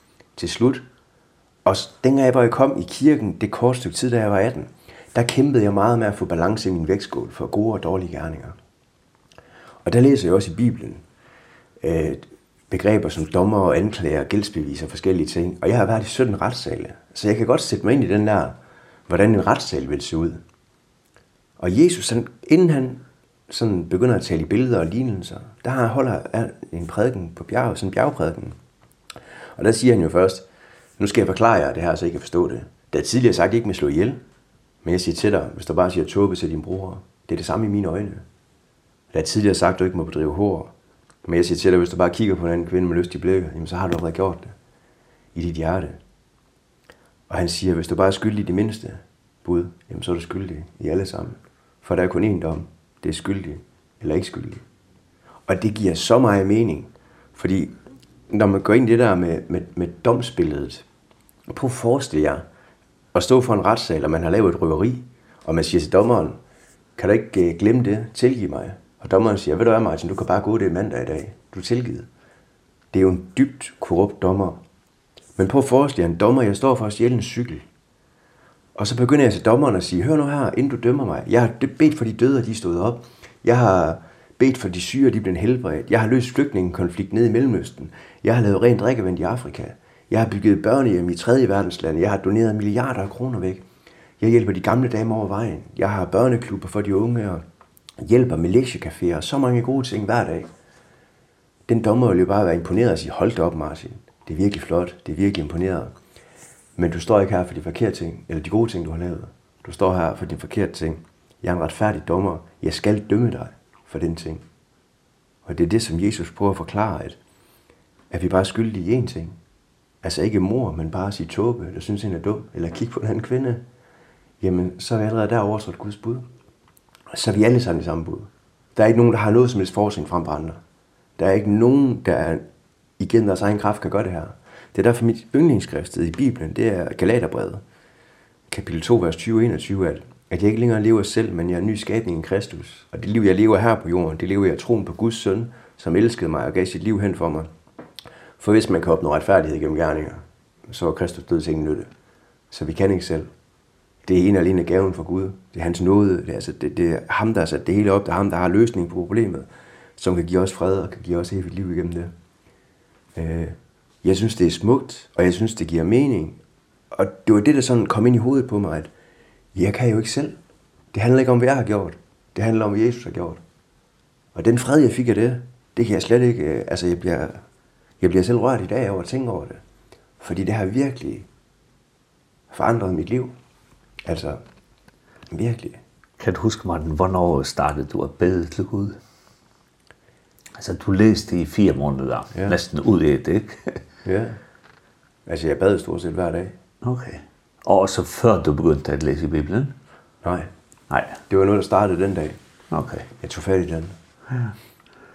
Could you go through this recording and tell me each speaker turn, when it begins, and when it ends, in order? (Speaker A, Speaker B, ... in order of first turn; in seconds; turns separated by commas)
Speaker A: 0.4-0.9, Speaker A: 1.6-8.6, Speaker A: 9.8-11.0, Speaker A: 11.8-20.4, Speaker A: 21.6-28.6, Speaker A: 29.6-30.5, Speaker A: 31.0-34.2, Speaker A: 34.8-38.2, Speaker A: 39.1-40.7, Speaker A: 41.2-44.5, Speaker A: 45.4-46.0, Speaker A: 47.3-54.6, Speaker A: 55.5-57.8, Speaker A: 58.3-60.9, Speaker A: 61.5-62.5, Speaker A: 63.1-66.4, Speaker A: 67.0-72.1, Speaker A: 72.9-74.6, Speaker A: 75.4-77.7, Speaker A: 78.8-93.7, Speaker A: 94.2-97.4, Speaker A: 98.0-100.5, Speaker A: 101.7-105.9, Speaker A: 106.8-114.4, Speaker A: 115.5-117.2, Speaker A: 118.1-119.4, Speaker A: 120.0-123.6, Speaker A: 124.4-126.3, Speaker A: 127.1-130.6, Speaker A: 131.2-132.4, Speaker A: 133.0-137.6, Speaker A: 138.5-147.5, Speaker A: 148.4-151.9, Speaker A: 152.5-153.3, Speaker A: 154.0-162.1, Speaker A: 163.2-166.4, Speaker A: 166.9-168.9, Speaker A: 169.5-170.4, Speaker A: 170.9-173.4, Speaker A: 174.3-177.4, Speaker A: 178.0-179.6, Speaker A: 180.2-181.3, Speaker A: 182.5-183.3, Speaker A: 184.1-184.4, Speaker A: 185.3-185.8, Speaker B: 186.2-189.0, Speaker B: 190.6-193.8, Speaker A: 192.3-192.6, Speaker A: 194.1-194.4, Speaker A: 195.3-196.6, Speaker B: 196.8-199.7, Speaker A: 200.2-200.5, Speaker B: 200.9-201.2, Speaker A: 201.3-202.4, Speaker B: 202.7-203.1, Speaker A: 203.2-203.9